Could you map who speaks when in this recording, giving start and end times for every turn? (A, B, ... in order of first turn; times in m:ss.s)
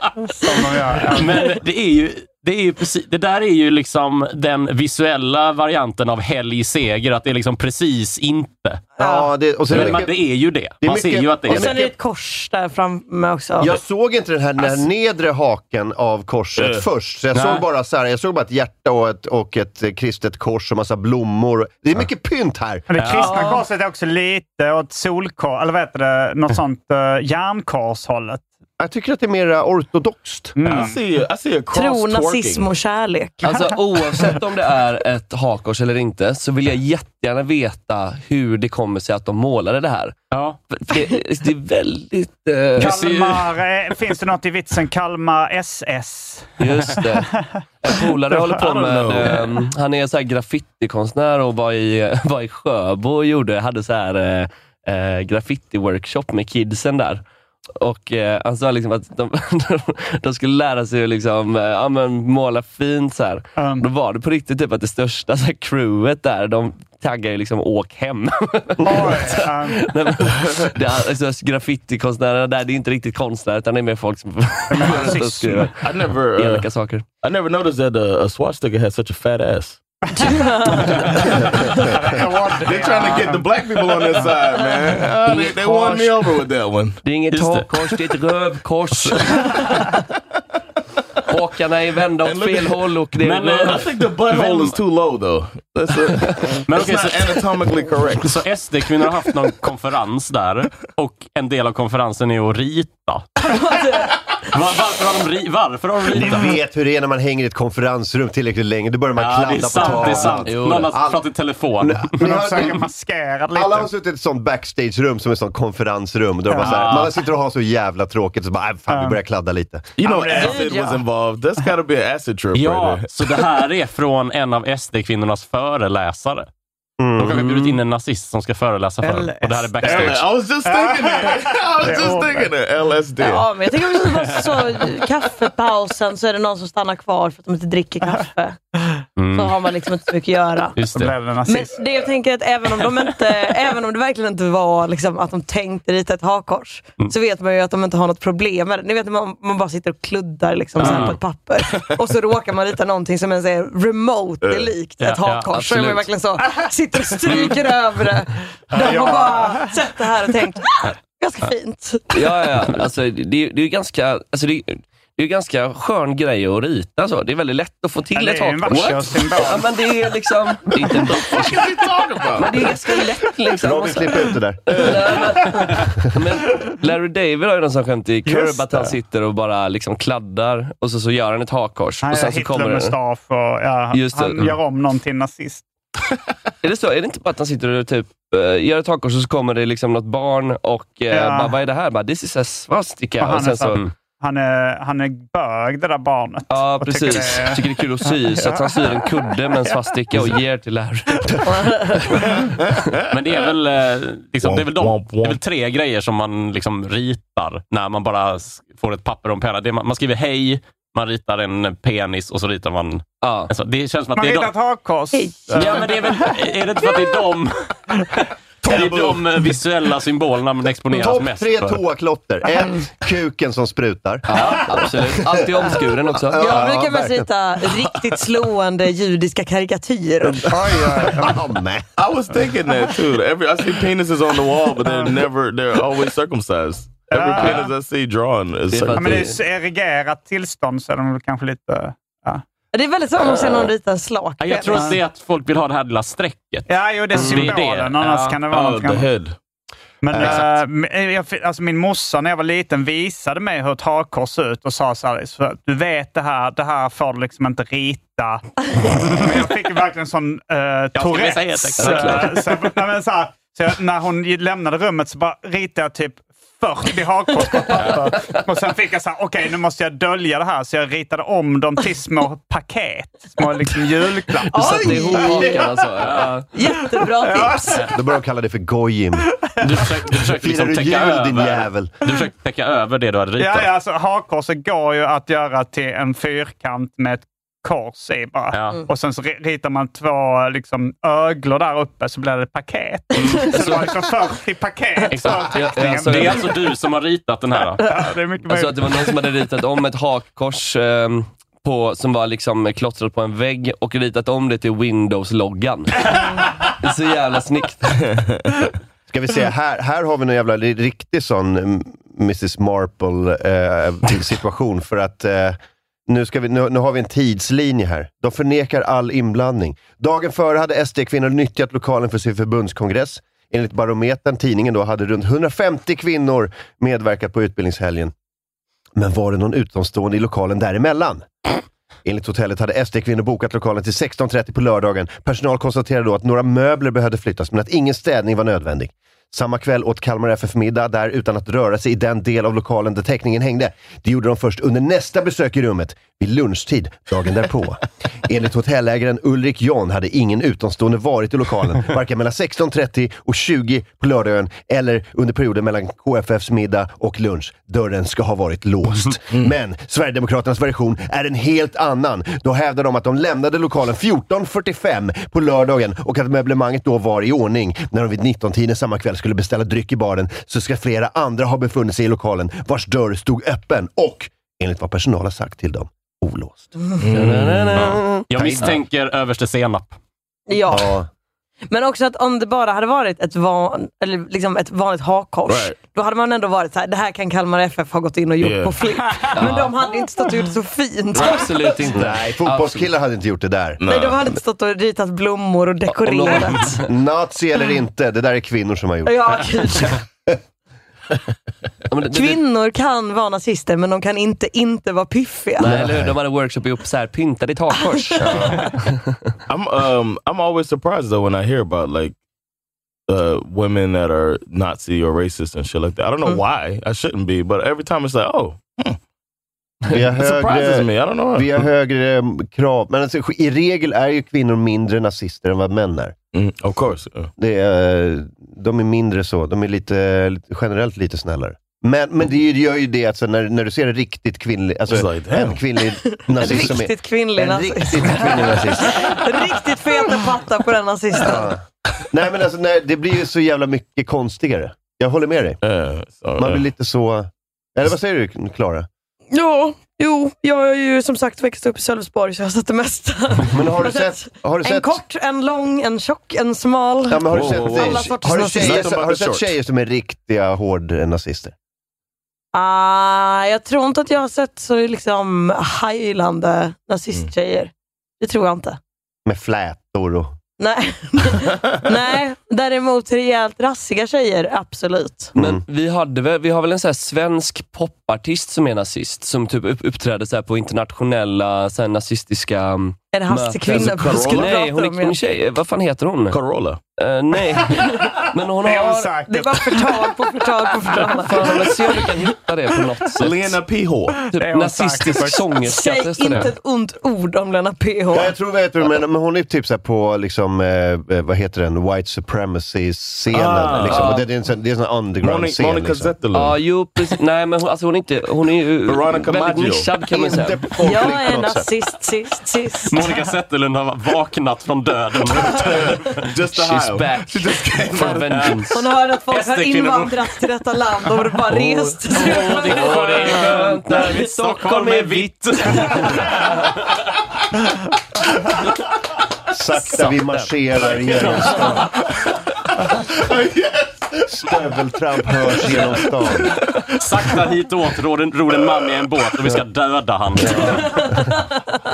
0:00.4-0:01.5 A
0:01.1-0:08.9 B
0:09.0-0:11.9 C
0:09.7-0:11.8 B
0:11.5-0:13.7 D
0:13.6-0:22.9 C
0:16.6-0:16.8 E
0:17.3-0:17.6 B
0:22.9-0:28.5 A
0:23.0-0:23.5 B
0:23.2-0:23.6 D
0:28.8-0:30.6 C
0:30.6-0:31.0 A
0:30.6-0:32.7 E
0:31.7-0:33.5 D
0:33.4-0:40.2 F
0:40.3-0:40.6 B
0:40.7-0:43.1 F
0:42.8-0:49.4 A
0:42.8-0:43.4 B
0:46.6-0:47.3 F
0:47.8-0:57.2 F
0:48.8-0:49.4 E
0:57.8-1:17.1 F
1:03.6-1:03.9 A
1:08.8-1:09.9 A
1:14.7-1:15.7 A
1:15.8-1:16.7 E
1:17.2-1:19.8 E
1:20.2-1:21.0 D
1:20.2-1:24.3 A
1:21.1-1:21.8 E
1:22.6-1:27.0 E
1:25.2-1:26.4 F
1:27.0-1:29.9 F
1:27.3-1:27.7 B
1:31.3-1:33.8 F
1:32.2-1:32.9 E
1:33.2-1:34.8 B
1:33.6-1:38.4 E
1:36.7-1:37.4 B
1:38.2-1:43.3 B
1:43.5-1:44.1 D
1:44.5-1:46.5 B
1:46.1-1:51.2 C
1:49.2-1:52.8 B
1:49.8-1:50.4 A
1:50.5-1:50.9 F
1:51.8-1:52.9 C
1:52.2-1:53.9 A
1:53.5-1:59.9 C
1:56.5-1:56.9 A
1:56.6-1:57.1 B
1:58.9-1:59.2 A
2:00.0-2:03.4 E
2:00.0-2:01.0 A
2:00.3-2:01.0 D
2:02.5-2:06.5 B
2:07.0-2:07.5 C
2:07.2-2:10.3 B
2:09.0-2:12.5 A
2:09.8-2:13.7 E
2:13.2-2:18.6 D
2:19.2-2:19.5 B
2:19.3-2:20.8 D
2:20.8-2:21.2 B
2:20.9-2:21.8 A
2:21.5-2:42.3 D
2:30.8-2:31.2 B
2:34.4-2:34.7 E
2:35.0-2:35.9 B
2:35.5-2:36.1 F
2:38.7-2:39.8 A
2:42.1-2:51.8 F
2:48.1-2:49.7 A
2:50.8-2:53.0 E
2:52.3-3:03.0 F
2:53.6-2:55.0 C
2:58.3-2:59.0 A
3:02.0-3:05.6 A
3:03.9-3:04.6 F
3:06.6-3:13.9 F
3:11.1-3:11.6 A
3:13.2-3:20.0 A
3:16.5-3:22.2 F
3:21.4-3:22.2 D
3:22.2-3:23.1 E
3:23.1-3:34.5 B
3:24.4-3:25.4 E
3:33.2-3:33.5 F
3:34.2-3:36.3 A
3:35.1-3:35.8 D
3:35.5-3:41.8 B
3:38.7-3:39.2 E
3:40.9-3:47.3 C
3:44.3-3:46.5 F
3:46.4-3:50.5 D
3:50.2-3:51.9 C
3:50.5-3:51.5 A
3:52.0-3:59.3 E
3:54.8-3:55.2 A
3:57.1-3:57.7 A
3:58.7-3:59.4 F
3:59.0-4:02.4 A
4:02.7-4:04.9 D
4:03.3-4:03.7 F
4:04.4-4:08.4 B
4:04.7-4:05.0 A
4:06.7-4:09.1 A
4:07.2-4:07.6 F
4:08.5-4:09.4 E
4:10.0-4:36.1 A
4:10.2-4:10.6 B
4:21.0-4:22.4 B
4:21.8-4:22.4 F
4:27.7-4:28.0 B
4:27.9-4:28.4 F
4:34.4-4:36.5 F
4:34.6-4:35.6 D
4:36.5-4:37.8 D
4:37.0-4:37.8 A
4:37.9-4:39.3 C
4:39.6-4:43.7 B
4:40.2-4:41.9 C
4:43.4-4:56.6 A
4:48.5-4:48.8 B
4:53.2-4:53.8 B
4:55.1-4:57.8 B
4:55.3-4:56.5 F
4:57.8-4:59.2 A
4:58.5-5:08.0 F
5:08.1-5:08.4 E
5:09.1-5:28.1 C
5:29.0-5:31.3 C
5:32.0-6:16.7 C
6:17.0-6:17.9 E
6:17.1-6:18.8 F
6:17.8-6:20.0 B
6:18.4-6:18.7 C
6:20.5-6:21.0 D
6:20.7-6:21.1 C
6:21.7-6:31.8 D
6:25.5-6:25.8 E
6:28.4-6:28.8 E
6:29.1-6:29.6 A
6:29.3-6:29.8 F
6:31.2-6:32.9 F
6:31.9-6:33.8 C
6:33.8-6:34.2 E
6:33.9-6:36.8 D
6:35.9-6:36.9 F
6:36.8-6:40.4 C
6:39.0-6:40.0 D
6:41.9-6:42.4 F
6:42.1-6:45.7 D
6:45.6-6:49.3 F
6:45.7-6:46.1 C
6:48.4-6:48.6 E
6:49.5-6:52.2 E
6:53.1-6:59.0 E
6:59.9-7:06.2 C
7:00.1-7:01.7 E
7:06.3-7:07.3 E
7:07.4-7:19.2 C
7:14.9-7:15.6 E
7:16.1-7:21.5 D
7:21.2-7:25.6 C
7:25.6-7:26.6 E
7:26.4-7:28.9 C
7:29.3-7:38.9 D
7:33.5-7:35.0 C
7:37.1-7:41.5 C
7:37.3-7:39.5 E
7:42.5-7:48.8 D
7:49.3-7:50.3 C
7:50.6-7:55.3 D
7:55.4-7:55.6 C
7:55.4-8:06.4 F
8:03.1-8:05.2 D
8:03.7-8:04.6 E
8:06.3-8:06.8 E
8:07.0-8:09.2 F
8:08.6-8:11.9 A
8:09.3-8:11.6 D
8:11.1-8:13.6 F
8:13.2-8:14.2 E
8:14.3-8:16.5 F
8:14.3-8:15.5 A
8:15.6-8:18.3 D
8:18.1-8:26.2 C
8:23.3-8:24.2 E
8:23.8-8:24.3 F
8:25.2-8:26.6 E
8:26.3-8:30.7 F
8:28.9-8:29.9 E
8:30.1-8:31.7 C
8:30.8-8:32.9 D
8:32.9-8:36.2 B
8:35.5-8:38.6 E
8:36.5-8:38.8 F
8:38.3-8:38.6 B
8:38.7-8:43.3 D
8:39.3-8:40.2 B
8:42.1-8:46.2 B
8:42.2-8:46.4 F
8:49.5-8:51.9 C
8:50.8-8:51.7 B
8:53.0-8:57.4 E
8:54.3-8:56.6 C
8:57.0-9:01.0 B
9:00.9-9:01.2 D